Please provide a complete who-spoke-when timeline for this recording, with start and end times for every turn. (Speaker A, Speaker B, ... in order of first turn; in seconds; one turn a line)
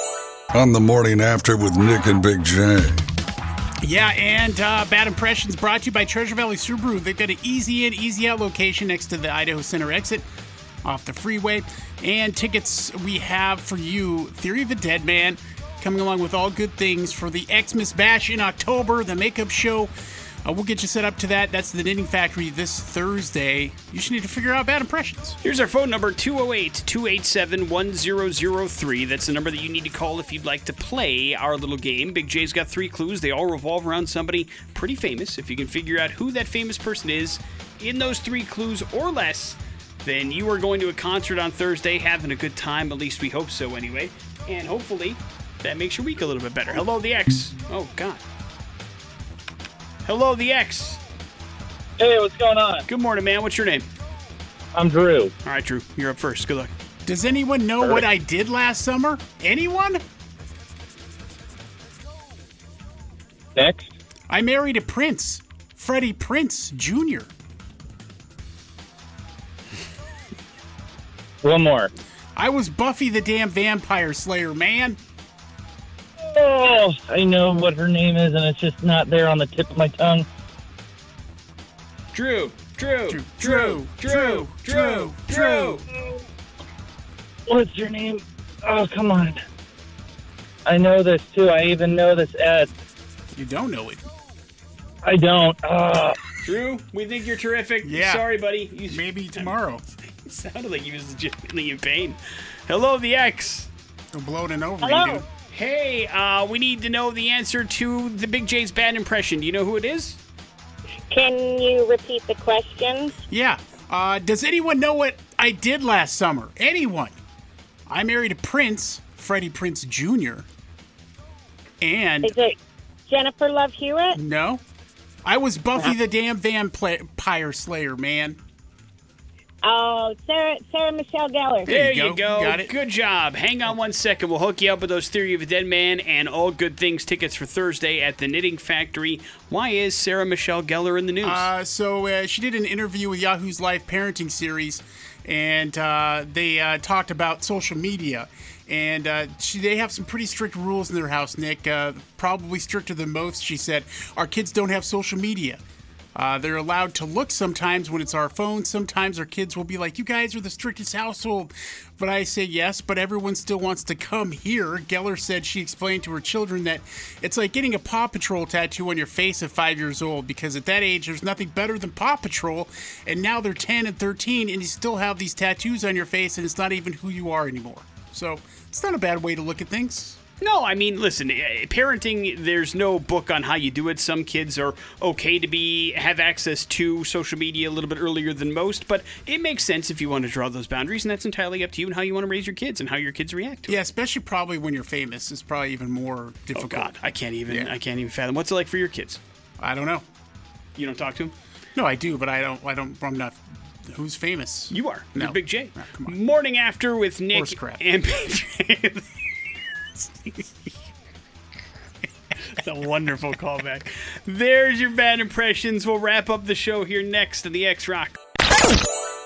Speaker A: 0.5-3.1
Speaker B: 3.8-10.2
Speaker B: 10.8-19.9
Speaker B: 20.4-25.4
Speaker C: 25.4-48.2
Speaker C: 50.0-51.0
Speaker D: 52.0-52.8
Speaker C: 52.9-53.9
Speaker D: 54.7-55.3
Speaker C: 55.4-56.7
Speaker B: 57.0-60.0
Speaker D: 63.5-63.9
Speaker B: 64.3-67.3
Speaker D: 71.4-71.9
Speaker B: 72.3-75.0
Speaker D: 76.2-80.3
Speaker C: 82.1-85.8
Speaker B: 83.1-85.8
Speaker D: 87.5-89.4
Speaker D: 90.6-92.7
Speaker B: 93.3-94.0
Speaker D: 95.0-96.2
Speaker C: 96.4-103.7
Speaker B: 97.8-98.3
Speaker B: 98.9-99.8
Speaker B: 104.1-105.2
Speaker E: 104.8-105.2
Speaker C: 105.5-110.2
Speaker E: 111.1-113.1
Speaker B: 113.3-117.2
Speaker B: 117.9-120.5
Speaker B: 121.8-122.3
Speaker E: 122.2-122.5
Speaker E: 123.1-124.2
Speaker B: 124.1-124.6
Speaker B: 125.2-128.4
Speaker E: 129.6-131.8
Speaker B: 131.7-132.7
Speaker C: 131.7-141.5
Speaker B: 141.2-155.6
Speaker B: 156.2-180.2
Speaker C: 180.4-193.8
Speaker B: 193.7-196.9
Speaker C: 196.5-199.2
Speaker B: 197.5-197.7
Speaker B: 199.6-200.1
Speaker C: 200.8-201.3
Speaker B: 201.8-206.2
Speaker C: 204.7-209.1
Speaker B: 207.3-207.8
Speaker C: 212.4-218.2